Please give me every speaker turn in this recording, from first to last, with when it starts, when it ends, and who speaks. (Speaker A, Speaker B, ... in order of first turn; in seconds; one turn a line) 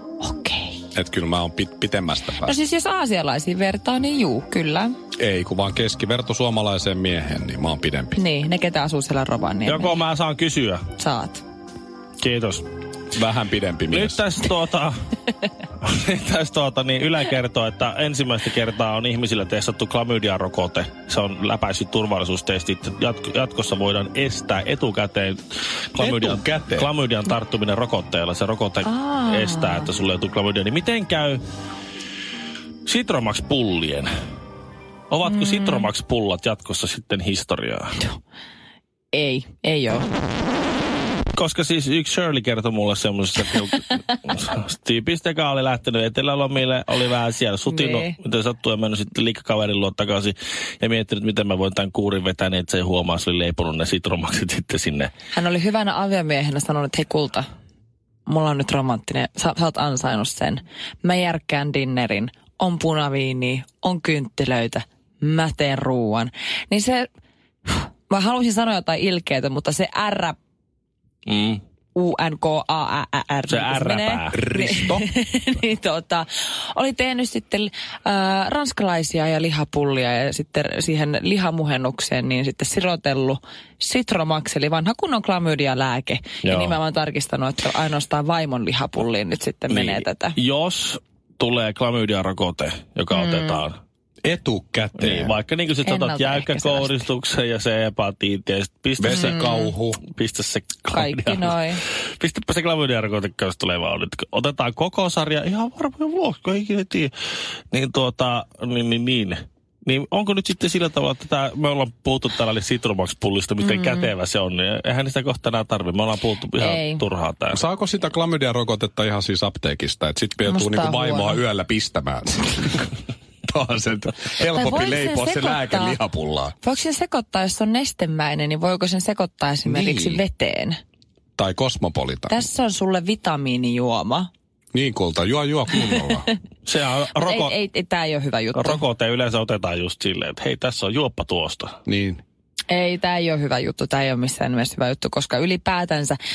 Speaker A: 0.2-0.8
Speaker B: 0.9-2.6
Speaker A: 2.4-4.9
Speaker B: 5.2-8.2
Speaker A: 8.2-10.0
Speaker C: 9.7-10.8
Speaker A: 11.0-11.4
Speaker C: 12.2-12.7
Speaker B: 13.1-14.2
Speaker C: 13.9-15.0
Speaker C: 15.8-31.4
Speaker B: 26.0-26.9
Speaker A: 28.8-29.9
Speaker C: 32.9-34.1
Speaker C: 35.1-38.0
Speaker A: 35.2-35.9
Speaker A: 39.1-40.1
Speaker C: 41.3-55.1
Speaker A: 47.7-48.1
Speaker A: 55.3-57.5
Speaker A: 58.2-67.1
Speaker A: 67.7-70.4
Speaker C: 71.3-71.6
Speaker A: 72.0-90.4
Speaker C: 73.5-74.4
Speaker B: 74.4-75.0
Speaker C: 86.4-86.8
Speaker C: 89.7-93.8
Speaker A: 93.1-93.6
Speaker B: 94.2-95.3
Speaker C: 95.0-99.4
Speaker A: 95.8-97.0
Speaker B: 99.0-100.0
Speaker A: 99.2-99.7
Speaker C: 100.1-101.6
Speaker A: 100.9-101.8
Speaker C: 102.2-107.1
Speaker C: 107.7-117.6
Speaker A: 113.6-114.1
Speaker A: 116.6-117.0
Speaker B: 117.5-126.5
Speaker A: 120.4-121.4
Speaker A: 124.4-126.0
Speaker A: 126.6-130.8
Speaker B: 129.7-130.2
Speaker B: 131.4-132.4
Speaker A: 132.3-134.3
Speaker B: 134.7-136.3
Speaker A: 135.8-136.3
Speaker C: 136.7-137.5
Speaker A: 137.2-138.8
Speaker C: 138.5-141.8
Speaker B: 141.9-142.2
Speaker A: 142.7-146.2